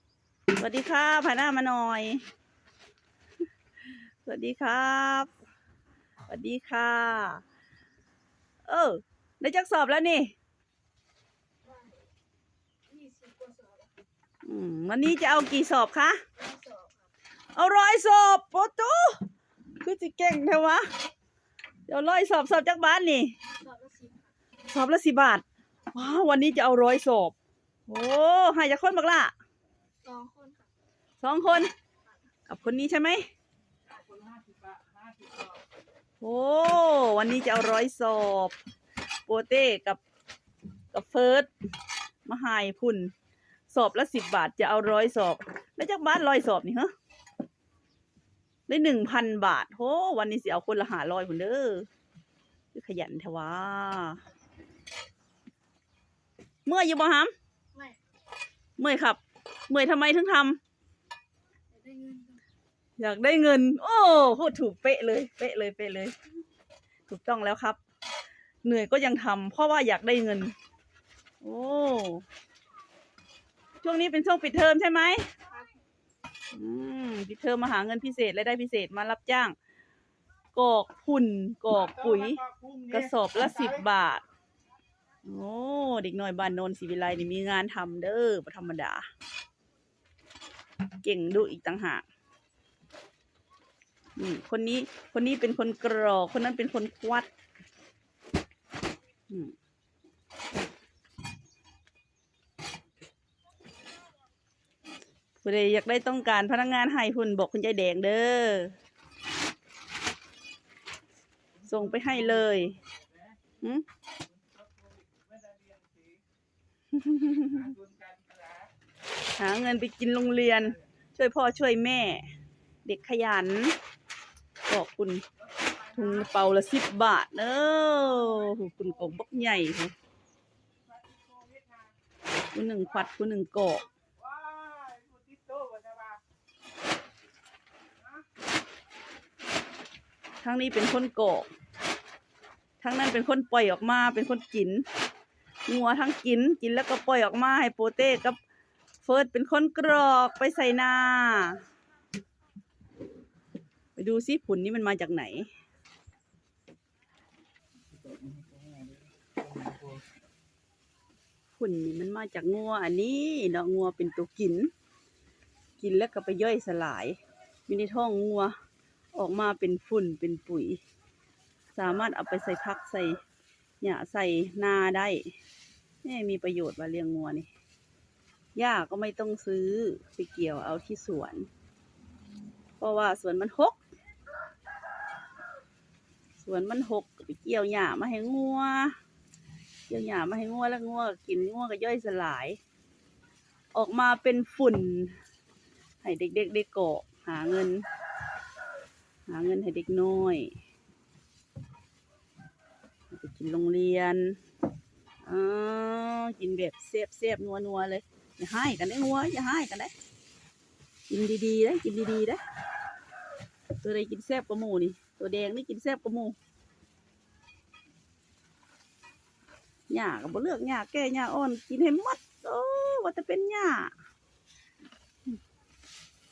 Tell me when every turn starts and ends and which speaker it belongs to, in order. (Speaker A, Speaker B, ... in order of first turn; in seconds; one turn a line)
Speaker A: 0.6-2.2
Speaker A: 3.8-5.3
Speaker A: 6.3-7.4
Speaker A: 8.7-10.3
Speaker B: 11.7-12.1
Speaker B: 12.9-14.0
Speaker A: 14.4-16.2
Speaker B: 16.4-17.1
Speaker A: 17.6-19.3
Speaker A: 19.8-20.9
Speaker A: 21.9-23.5
Speaker B: 23.6-24.3
Speaker A: 24.7-27.4
Speaker A: 27.9-29.3
Speaker B: 30.0-30.7
Speaker A: 31.2-31.7
Speaker A: 32.5-33.3
Speaker A: 36.2-38.6
Speaker A: 39.3-40.0
Speaker A: 40.9-41.5
Speaker A: 42.3-43.1
Speaker A: 43.7-46.9
Speaker A: 48.7-51.9
Speaker A: 52.7-54.2
Speaker A: 56.7-57.3
Speaker A: 58.8-60.6
Speaker B: 61.7-62.4
Speaker A: 63.0-66.2
Speaker A: 67.1-67.8
Speaker A: 68.6-70.5
Speaker A: 71.4-72.2
Speaker A: 73.8-75.3
Speaker A: 76.5-79.5
Speaker A: 80.5-84.2
Speaker A: 85.2-89.1
Speaker A: 91.0-92.0
Speaker A: 94.2-97.3
Speaker A: 99.3-99.6
Speaker A: 105.4-108.8
Speaker A: 111.7-112.8
Speaker A: 113.6-113.9
Speaker A: 116.9-117.8
Speaker A: 119.4-122.3
Speaker A: 122.8-123.8
Speaker A: 124.7-125.2
Speaker A: 125.8-129.9
Speaker A: 132.5-133.9
Speaker B: 134.6-136.0
Speaker A: 140.4-141.5
Speaker A: 142.8-144.9
Speaker A: 145.7-148.4
Speaker A: 149.0-151.6
Speaker A: 154.0-155.5
Speaker A: 161.6-164.7
Speaker A: 165.8-167.2
Speaker A: 167.7-168.6
Speaker A: 169.2-170.8
Speaker A: 171.8-173.2
Speaker A: 173.8-175.3
Speaker A: 176.0-177.5
Speaker A: 178.6-181.5
Speaker A: 182.8-183.8
Speaker A: 186.4-189.0
Speaker A: 189.9-192.6
Speaker A: 193.8-195.2
Speaker A: 196.0-197.9
Speaker A: 199.3-200.5
Speaker A: 203.1-204.4
Speaker A: 205.2-209.9
Speaker A: 211.1-212.4
Speaker A: 213.8-216.4
Speaker A: 219.9-223.9